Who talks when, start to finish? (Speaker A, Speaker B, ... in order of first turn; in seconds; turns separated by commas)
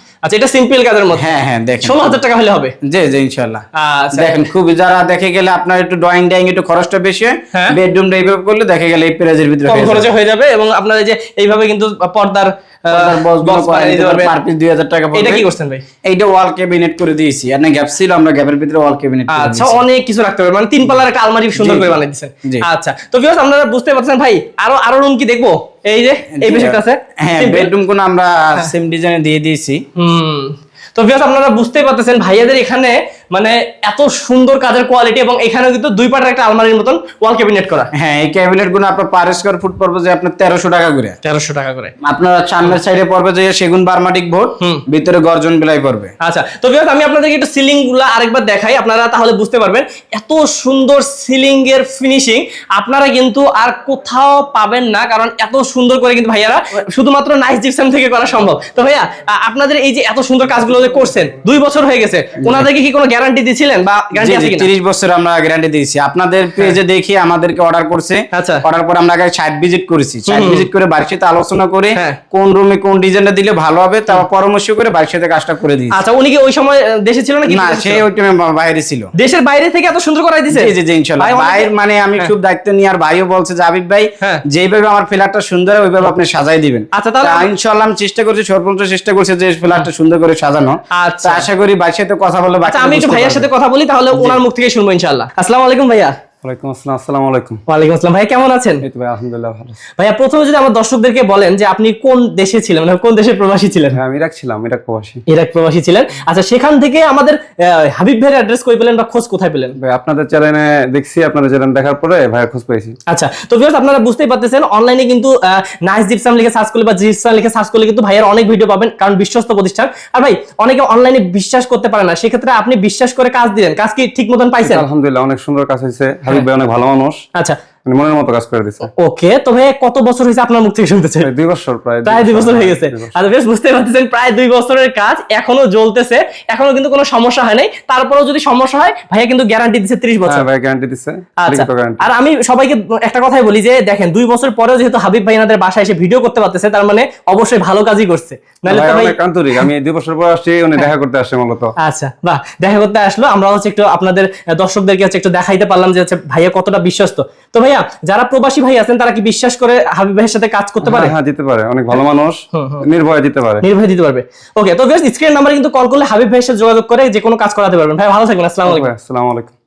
Speaker A: 0.2-1.2, Speaker B: 1.1-2.2, Speaker A: 1.8-2.7, Speaker B: 2.8-3.6, Speaker A: 3.7-4.4, Speaker B: 4.2-10.1, Speaker A: 9.6-14.3, Speaker B: 12.9-15.4, Speaker A: 15.1-15.8, Speaker B: 16.0-19.8, Speaker A: 19.3-27.7, Speaker B: 21.6-22.6, Speaker B: 26.3-29.8, Speaker A: 30.0-37.9, Speaker B: 38.0-41.2, Speaker A: 41.2-41.9, Speaker B: 42.0-46.1, Speaker A: 46.2-64.7, Speaker B: 62.4-62.7, Speaker B: 64.1-75.9, Speaker A: 68.3-68.6, Speaker A: 70.3-70.7, Speaker A: 76.0-78.0, Speaker B: 77.5-79.1, Speaker A: 79.2-82.3, Speaker B: 80.5-93.5, Speaker A: 86.9-87.5, Speaker A: 90.9-91.5, Speaker A: 92.7-96.2, Speaker B: 94.1-94.4, Speaker C: 96.4-97.6, Speaker A: 97.7-98.8, Speaker C: 98.8-99.8, Speaker A: 100.0-104.0, Speaker C: 103.9-105.2, Speaker A: 105.3-109.8, Speaker C: 109.8-112.9, Speaker A: 113.1-124.8, Speaker C: 124.6-127.2, Speaker C: 127.8-128.9, Speaker A: 128.9-131.3, Speaker C: 131.2-133.1, Speaker A: 132.0-140.4, Speaker C: 140.2-142.1, Speaker A: 141.4-149.6, Speaker C: 148.7-151.7, Speaker A: 151.8-161.1, Speaker C: 160.8-163.6, Speaker A: 162.5-162.8, Speaker A: 163.6-168.9, Speaker C: 168.6-169.5